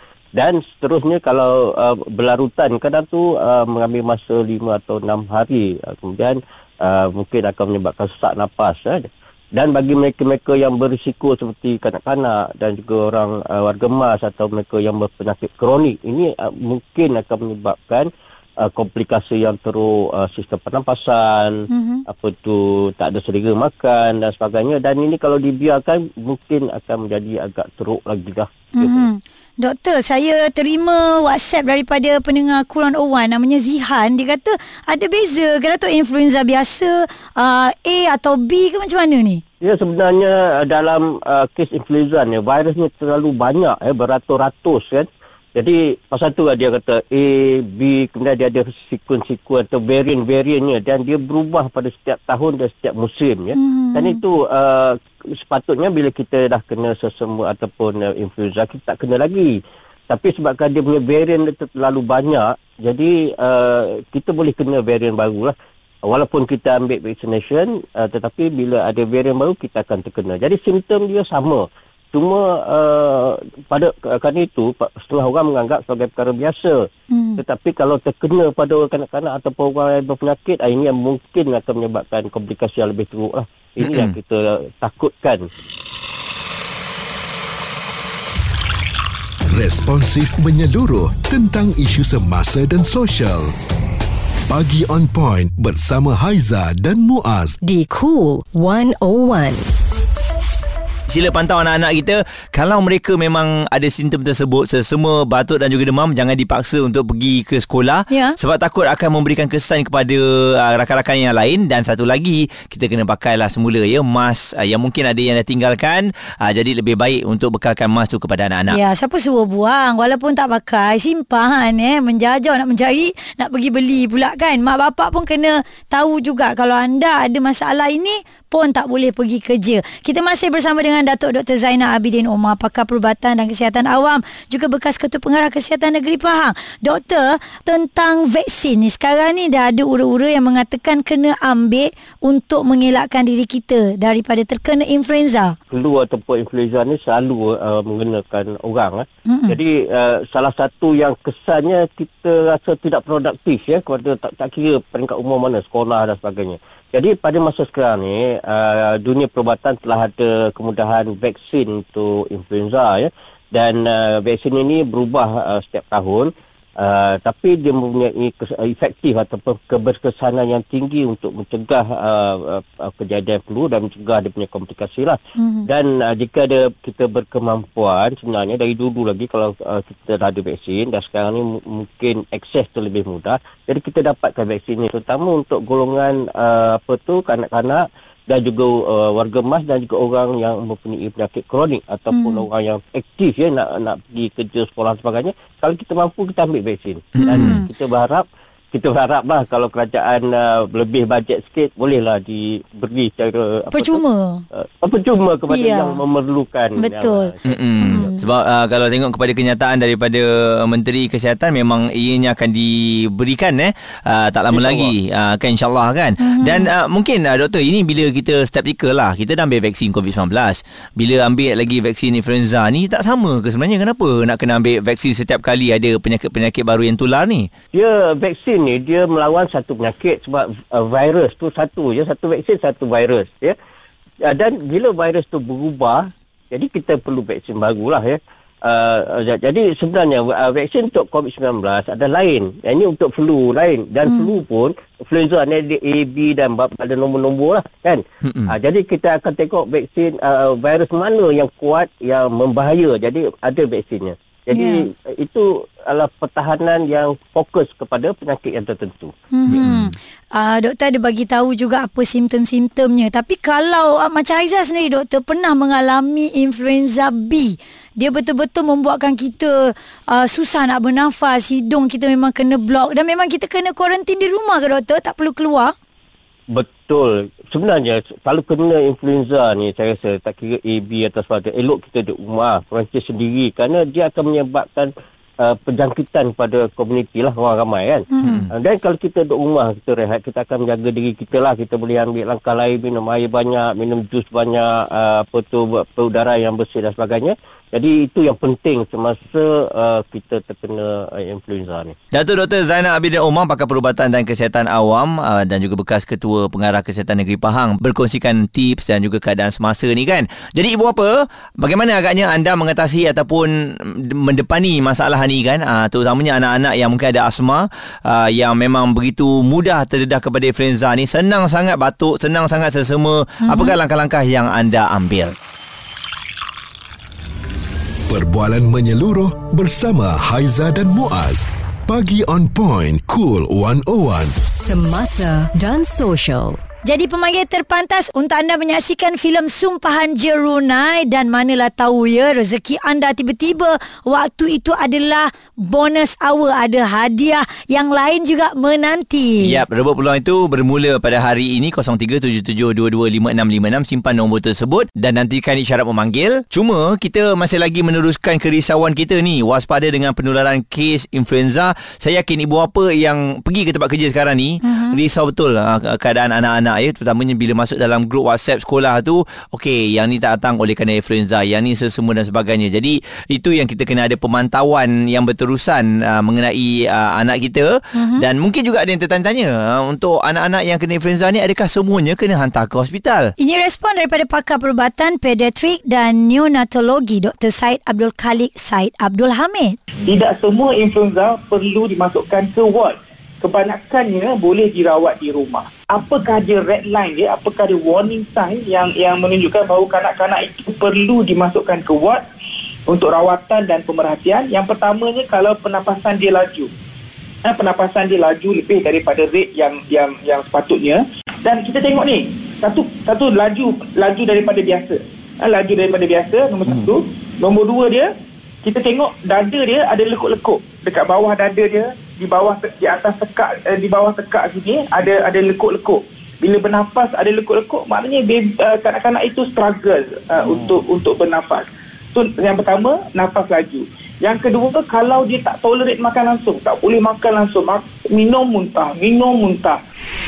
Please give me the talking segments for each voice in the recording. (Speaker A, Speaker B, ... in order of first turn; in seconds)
Speaker A: 0.3-18.1, 18.6-29.1, 39.6-59.6, 60.1-65.5, 66.1-76.8, 77.4-85.5, 145.7-204.0, 204.6-208.0, 214.5-214.9, 227.7-233.6, 234.2-259.1, 276.5-284.9, 285.4-301.9
Speaker B: 21.7-22.0, 28.8-39.4, 53.6-54.2, 77.1-77.4, 108.1-108.4, 118.7-145.6, 149.3-149.6, 175.4-175.7, 192.1-192.4, 197.3-197.7, 203.7-204.4, 205.5-206.0, 206.8-208.2, 216.2-216.7, 254.5-254.8, 259.3-275.7, 288.1-288.4, 323.4-323.8, 336.9-349.6, 364.6-365.0, 377.9-378.2, 383.4-389.8
Speaker C: 83.8-84.2, 101.1-118.8, 197.2-197.6, 207.4-227.5, 248.2-248.5, 259.5-259.9, 288.2-288.5, 302.1-325.4, 349.4-383.3
Speaker D: 89.5-93.5, 94.5-97.6, 328.1-334.4
Speaker E: 97.6-99.7, 334.6-336.6
Speaker F: 390.0-402.2, 402.9-406.7, 407.4-418.1, 418.6-439.8